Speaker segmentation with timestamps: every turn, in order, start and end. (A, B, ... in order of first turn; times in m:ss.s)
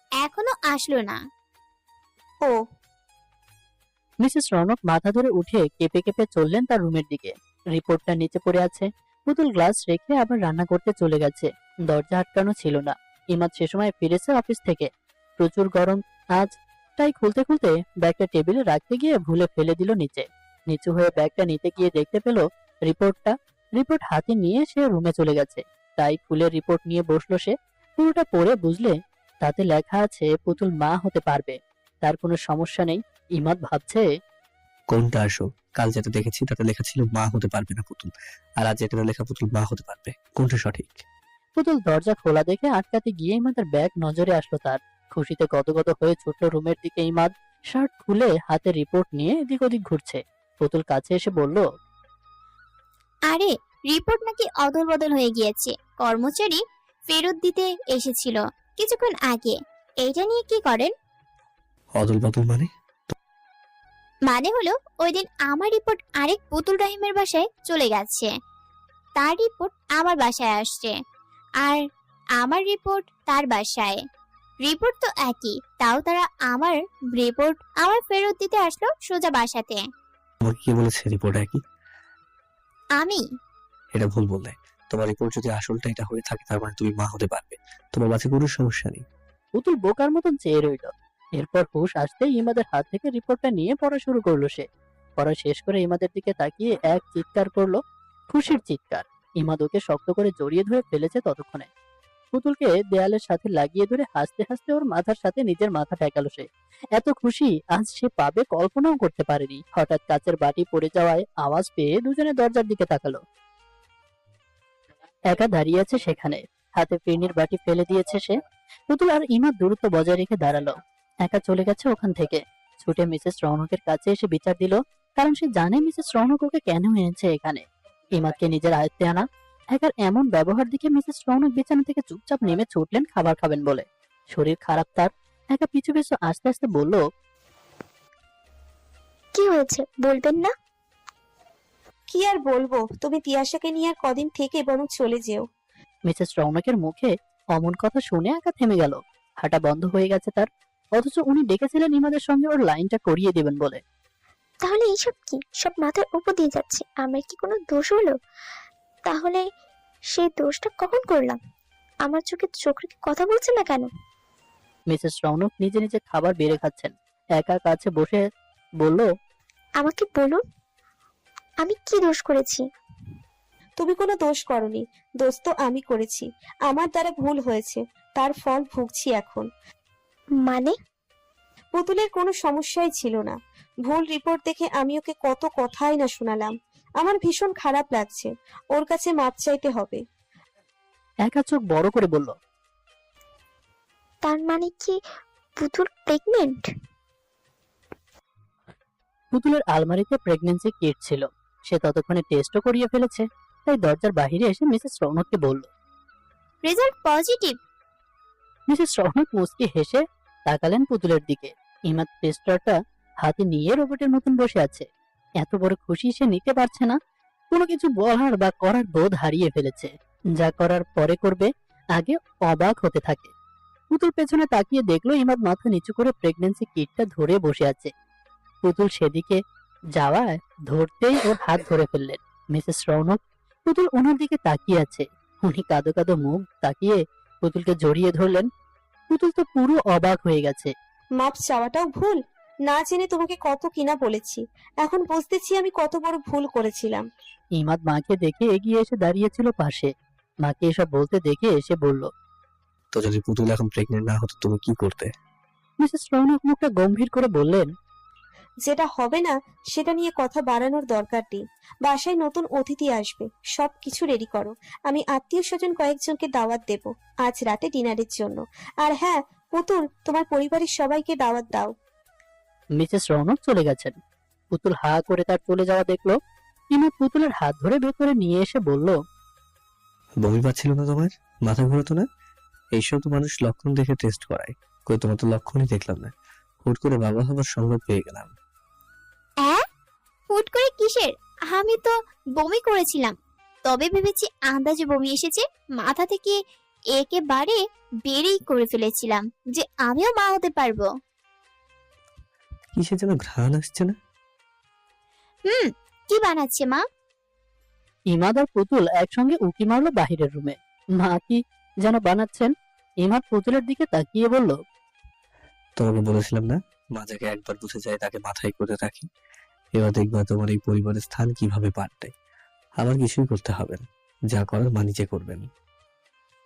0:00.2-0:01.2 A
0:04.2-0:34.0 B
0:34.9-0:41.0 C
0:41.6-0:51.6 B
0:53.3-1:00.9 A
1:02.0-1:02.7 C
1:04.3-1:08.3 A
1:09.2-1:11.0 A
1:12.4-1:14.0 A
1:14.6-1:19.8 A
1:20.4-1:21.6 C
1:23.9-1:29.0 C
1:29.6-1:34.6 B
1:35.2-1:37.8 B
1:38.3-1:41.7 B
1:42.3-1:53.2 B
1:55.3-1:58.4 B
1:58.9-2:07.6 B
2:08.2-2:17.0 B
2:19.4-2:20.5 D
2:22.1-2:25.4 E
2:26.1-2:33.8 B
2:34.6-2:38.1 D
2:39.1-2:39.4 D
2:40.1-2:41.4 D
2:42.0-2:43.9 D
2:44.9-2:48.2 B
2:48.8-2:49.1 B
2:49.8-2:50.4 D
2:51.6-2:52.6 D
2:53.8-2:59.5 E
3:00.4-3:00.8 D
3:01.8-3:10.0 E
3:11.2-3:12.3 B
3:14.2-3:15.0 D
3:15.6-3:16.7 D
3:19.3-3:25.7 B
3:26.6-3:27.6 A
3:28.7-3:34.9 B
3:35.4-3:37.0 B
3:37.5-3:43.3 B
3:43.9-3:47.9 B
3:48.6-3:49.4 B
3:50.0-3:58.5 B
3:59.1-4:00.7 B
4:01.2-4:07.0 E
4:07.6-4:09.9 B
4:10.4-4:12.1 B
4:12.9-4:15.1 C
4:15.8-4:17.7 B
4:18.6-4:31.7 E
4:32.8-4:34.0 B
4:34.5-4:36.2 B
4:36.7-4:38.9 B
4:40.2-4:42.0 C
4:42.7-4:46.1 C
4:46.6-4:48.3 C
4:50.3-4:53.1 A
4:53.7-4:56.4 A
4:57.0-5:00.9 A
5:02.7-5:04.0 C
5:05.5-5:06.8 A
5:08.1-5:14.6 B
5:15.8-5:19.1 C
5:19.8-5:22.1 C
5:22.8-5:25.5 C